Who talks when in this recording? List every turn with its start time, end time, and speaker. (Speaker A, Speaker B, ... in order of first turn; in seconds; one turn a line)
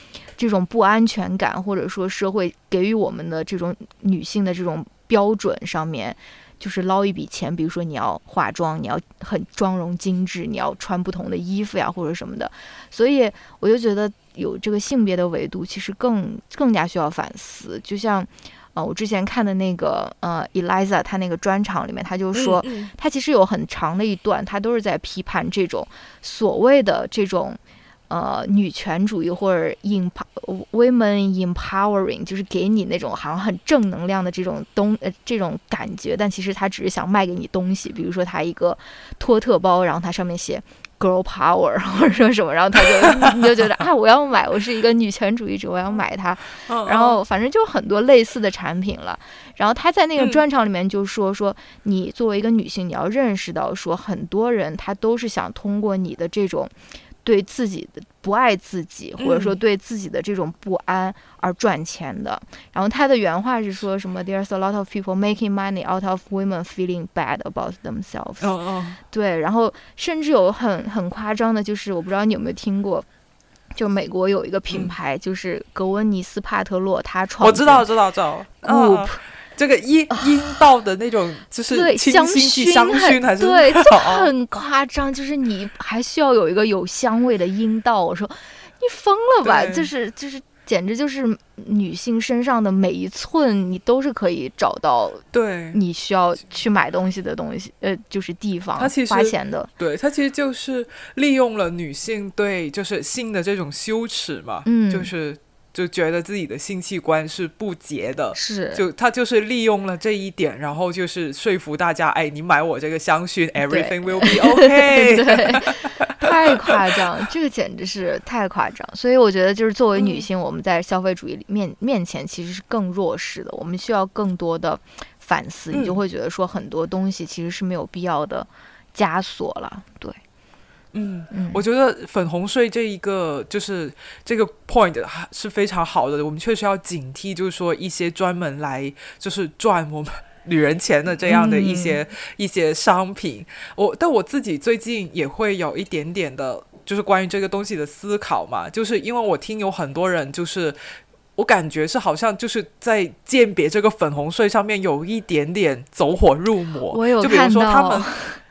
Speaker A: 0.4-56.7
Speaker B: 22.3-22.9
Speaker B: 46.7-47.2
Speaker B: 50.2-50.4
Speaker A: 57.2-68.5
Speaker B: 59.2-59.5
Speaker B: 68.4-69.0
Speaker A: 69.1-73.1
Speaker A: 73.7-77.9
Speaker B: 77.4-84.3
Speaker A: 78.6-79.2
Speaker A: 81.7-99.7
Speaker B: 89.4-89.9
Speaker B: 95.3-95.8
Speaker B: 98.8-115.6
Speaker A: 104.7-105.1
Speaker A: 108.3-108.8
Speaker A: 113.7-130.2
Speaker B: 116.2-116.8
Speaker B: 120.0-120.2
Speaker B: 125.7-126.0
Speaker B: 130.9-150.8
Speaker A: 131.3-131.6
Speaker A: 141.3-142.0
Speaker B: 151.4-158.1
Speaker A: 156.9-158.4